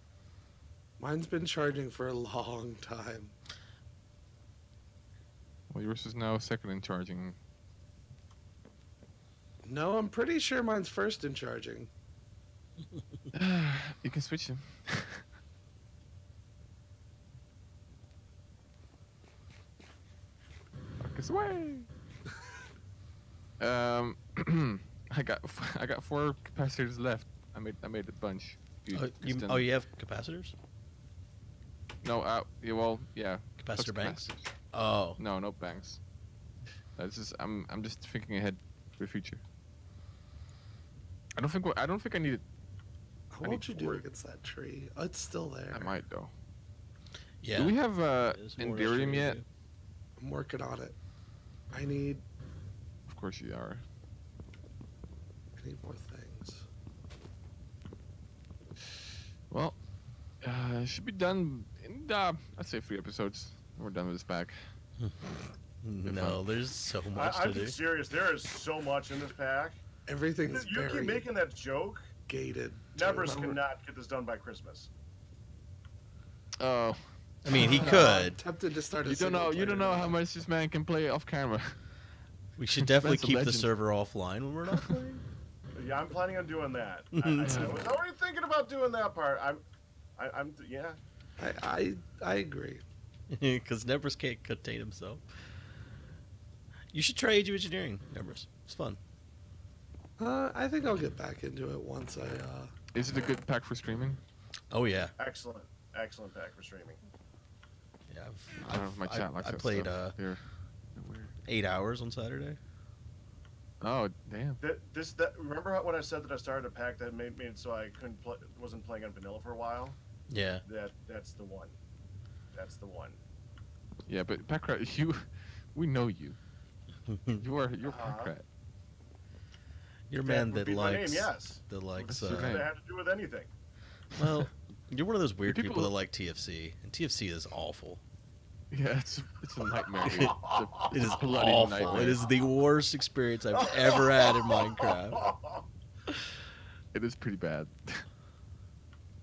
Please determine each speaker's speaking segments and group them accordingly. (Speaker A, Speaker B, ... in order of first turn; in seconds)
Speaker A: 1.0-3.3, 9.6-11.9, 43.3-45.9, 50.2-51.0, 51.7-52.2, 55.6-56.6, 70.1-71.3, 72.3-73.6, 77.5-80.2, 91.4-92.8, 100.2-102.7
Speaker B: 5.7-7.4, 13.3-15.2, 21.0-21.9, 23.6-29.7, 32.0-34.5, 35.2-36.0, 37.0-39.4, 41.4-42.4, 43.4-44.0, 45.7-46.3, 47.5-49.4, 53.1-53.8, 59.5-59.8, 60.4-64.7, 66.0-66.4, 76.6-78.0, 79.0-81.8, 82.8-83.7, 102.9-104.2, 108.6-110.4, 111.0-111.3, 113.8-114.6, 124.1-126.4, 127.4-128.4, 132.1-132.7, 135.5-135.9, 138.7-142.3, 146.9-148.1
Speaker C: 28.9-30.5, 33.6-35.2, 47.4-47.8, 48.3-49.5, 65.8-67.8, 77.4-78.4, 82.6-85.2, 87.1-87.7, 93.3-95.2, 96.9-99.0, 104.7-105.1, 108.1-110.2, 111.5-112.6, 120.3-120.6, 127.1-127.4, 130.1-132.6, 134.2-138.0, 140.0-145.3
Speaker D: 67.1-69.8, 70.5-72.1, 73.0-74.9, 85.8-89.6, 90.2-91.0, 105.2-107.0, 114.6-120.0, 120.7-121.8, 122.5-123.2, 127.8-128.3, 130.2-133.5, 140.0-142.3, 143.5-145.7